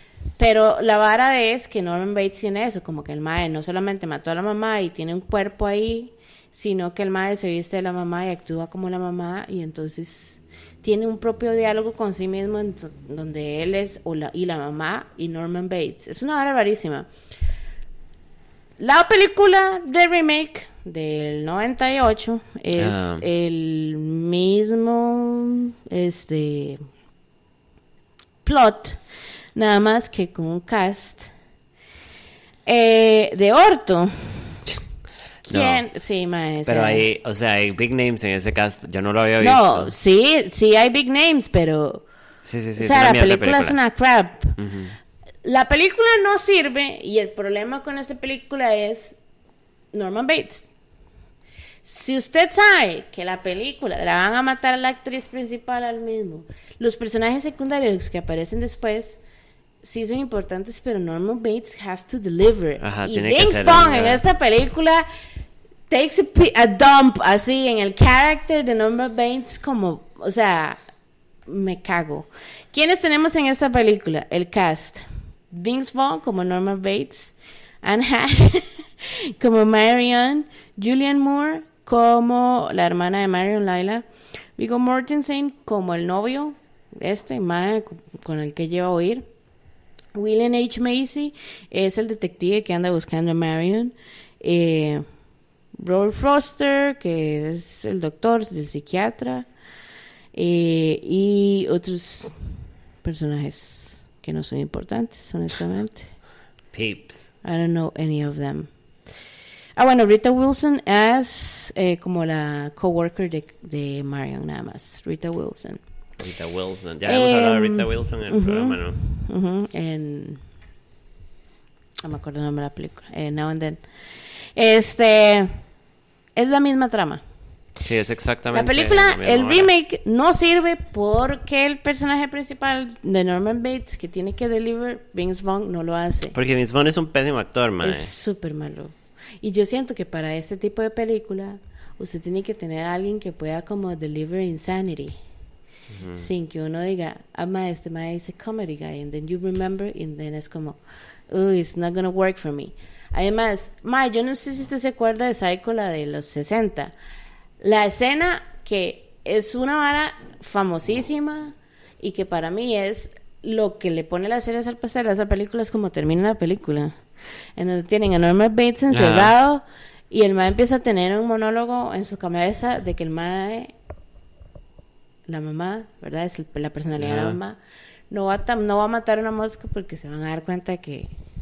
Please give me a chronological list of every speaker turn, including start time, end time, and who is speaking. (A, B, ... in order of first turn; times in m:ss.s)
0:00.4-0:17.1 A
0:18.8-0:26.8 A
0:22.8-0:23.3 B
0:28.4-0:29.0 A
0:29.6-0:31.3 A
0:32.7-0:34.6 A
0:35.4-0:37.0 A
0:35.5-0:35.8 B
0:36.7-0:39.9 B
0:39.4-0:42.0 A
0:42.4-0:43.8 B
0:42.8-0:44.6 A
0:44.6-0:45.0 B
0:45.4-0:49.1 A
0:49.9-0:50.7 A
0:51.8-0:59.2 A
0:59.8-1:05.0 A
1:02.8-1:04.2 B
1:05.9-1:10.8 A
1:11.5-1:29.2 A
1:30.1-1:35.0 A
1:35.8-1:39.5 A
1:40.3-1:42.3 A
1:43.0-1:46.1 A
1:46.7-1:47.3 B
1:47.4-1:48.7 A
1:49.8-1:55.8 A
1:56.2-1:59.0 B
1:57.0-2:00.4 A
2:02.0-2:03.8 A
2:04.6-2:05.5 A
2:06.4-2:07.2 A
2:07.8-2:09.7 B
2:08.5-2:16.4 A
2:16.3-2:18.1 B
2:17.8-2:25.1 A
2:25.9-2:26.3 B
2:26.1-2:30.8 A
2:31.3-2:36.9 A
2:37.6-2:47.0 A
2:47.6-2:53.7 A
2:48.9-2:49.3 B
2:55.3-2:57.6 A
2:57.0-2:57.4 B
2:58.1-3:01.1 A